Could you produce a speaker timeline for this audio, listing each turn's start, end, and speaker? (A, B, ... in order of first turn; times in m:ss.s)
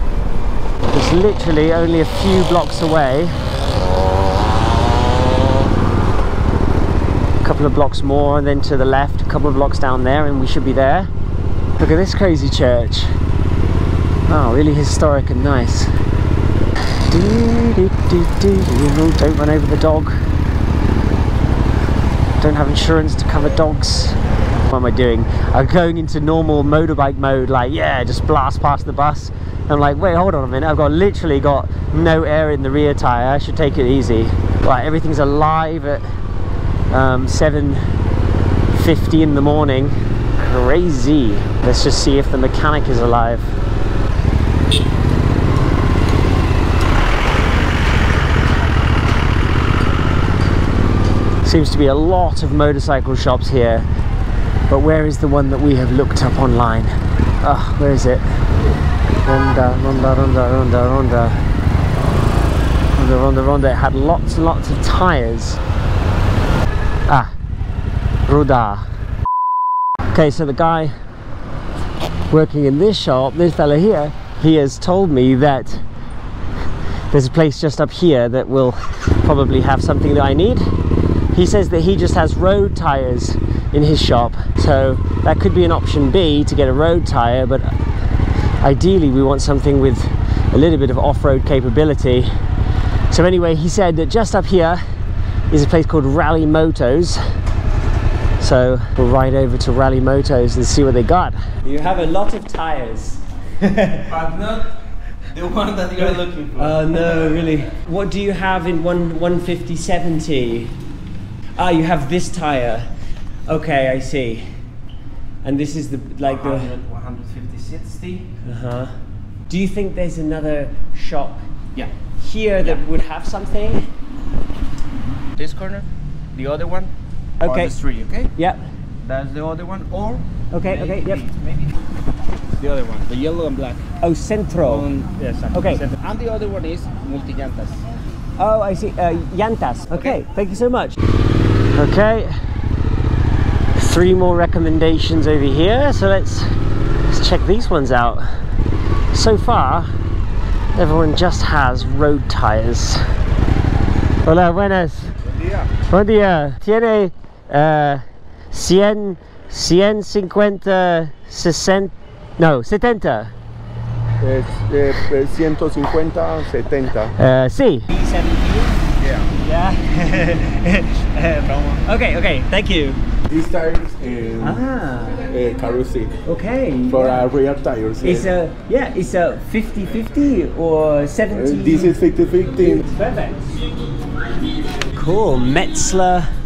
0:00.9-0:03.4 A
0:07.4-0:11.1 A
0:11.8-0:13.1 A
0:14.3-0:15.9 A
0:17.1-0:20.2 A
0:22.4-0:36.1 A
0:36.9-0:37.9 A
0:38.7-0:43.5 A
0:51.4-0:53.9 A
0:54.7-0:58.2 A
0:59.2-1:01.4 A
1:03.0-1:05.6 A
1:07.1-1:07.3 A
1:08.3-1:08.9 A
1:10.1-1:11.0 A
1:12.3-1:15.8 A
1:17.1-1:20.7 A
1:21.3-1:27.8 A
1:28.6-1:32.3 A
1:33.1-1:34.8 A
1:35.5-1:37.2 A
1:38.4-1:44.1 A
1:44.1-1:47.5 B
1:46.6-1:50.8 A
1:51.6-1:52.9 A
1:53.5-1:54.6 A
1:55.4-1:56.8 A
1:56.2-1:58.4 B
1:58.4-1:59.0 A
1:59.5-2:01.5 A
2:02.2-2:03.9 A
2:05.4-2:06.9 B
2:07.4-2:07.8 A
2:07.4-2:08.3 B
2:08.4-2:08.6 A
2:09.0-2:11.7 B
2:10.5-2:11.3 A
2:12.6-2:13.9 B
2:14.0-2:14.9 A
2:14.6-2:17.9 B
2:15.5-2:15.8 A
2:18.4-2:21.0 A
2:20.0-2:20.2 B
2:21.8-2:22.4 A
2:23.8-2:26.5 A
2:27.1-2:28.3 A
2:29.1-2:29.9 A
2:30.8-2:33.0 A
2:34.2-2:35.2 A
2:35.3-2:35.7 C
2:35.9-2:43.3 A
2:44.2-2:47.2 C
2:47.2-2:48.8 A
2:49.0-2:49.3 B
2:49.4-2:53.0 A
2:51.4-2:51.9 B
2:53.3-2:54.6 C
2:54.4-2:55.3 A
2:55.3-2:56.1 C
2:56.2-2:57.2 A
2:56.9-2:58.3 C
2:58.0-3:02.0 A
3:01.3-3:02.8 C
3:02.7-3:03.5 A
3:04.9-3:06.3 A